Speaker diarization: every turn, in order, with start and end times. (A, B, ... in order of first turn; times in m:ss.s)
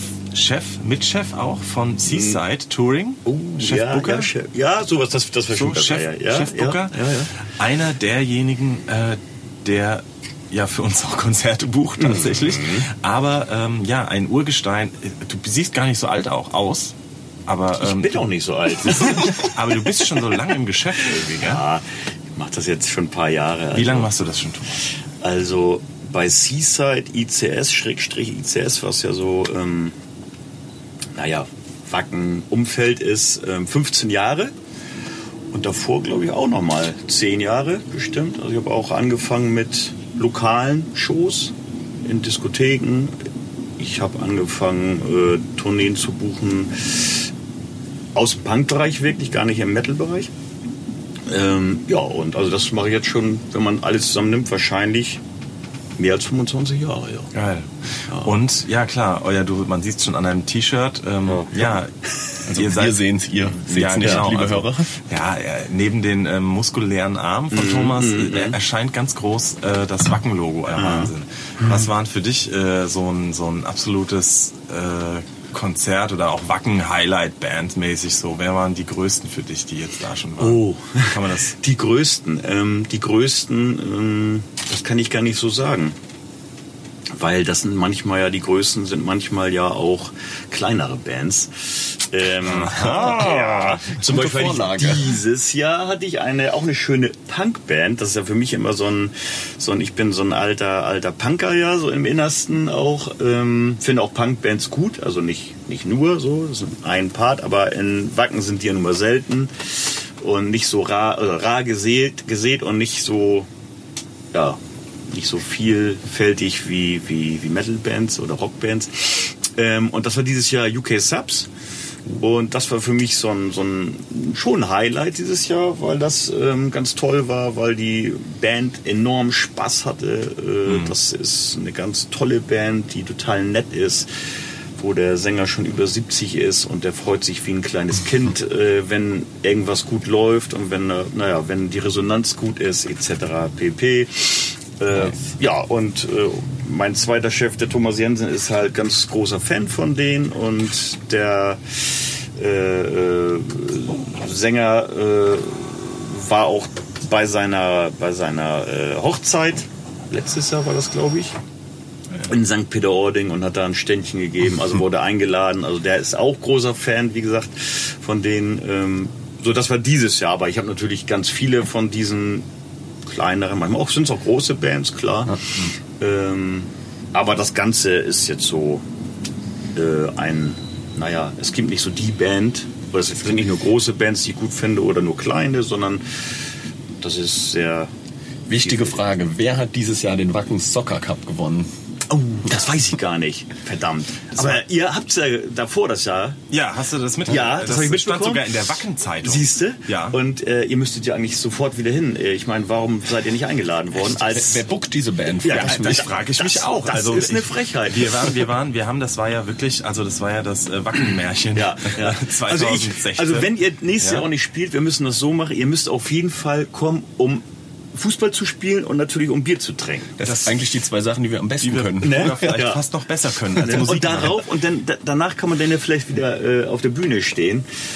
0:00.3-0:04.3 A
0:02.0-0:02.4 B
0:03.2-0:07.3 B
0:05.5-0:16.9 A
0:12.0-0:12.9 B
0:17.5-0:18.3 A
0:17.8-0:19.8 B
0:18.9-0:21.6 A
0:21.0-0:24.1 B
0:23.7-0:24.8 A
0:25.2-0:30.0 B
0:31.2-0:34.5 B
0:35.5-0:43.1 B
0:43.8-0:47.3 B
0:48.2-0:50.3 B
0:51.3-0:55.2 B
0:56.0-0:57.3 B
0:57.3-1:03.0 A
0:58.1-0:58.4 B
1:02.6-1:04.9 C
1:03.7-1:04.3 B
1:03.7-1:21.6 A
1:07.5-1:08.6 B
1:10.7-1:11.1 B
1:20.4-1:26.0 B
1:27.1-1:53.5 B
1:32.4-1:33.9 A
1:32.8-1:35.2 C
1:54.3-2:01.5 B
2:02.1-2:14.1 B
2:10.7-2:10.9 A
2:14.8-2:41.3 B
2:42.3-2:52.5 B
2:53.0-2:55.5 B
2:56.0-2:58.8 B
2:59.8-3:06.3 B
3:07.0-3:07.9 B
3:08.5-3:11.7 C
3:08.6-3:09.0 B
3:12.1-3:16.4 B
3:16.5-3:20.2 A
3:17.3-3:18.6 B
3:19.2-3:24.7 B
3:24.1-3:26.1 C
3:25.4-3:28.4 B
3:25.4-3:34.3 A
3:31.5-3:40.2 B
3:40.2-3:40.6 A
3:40.2-3:42.5 C
3:41.6-3:44.4 A
3:42.0-3:42.8 B
3:43.6-3:47.7 B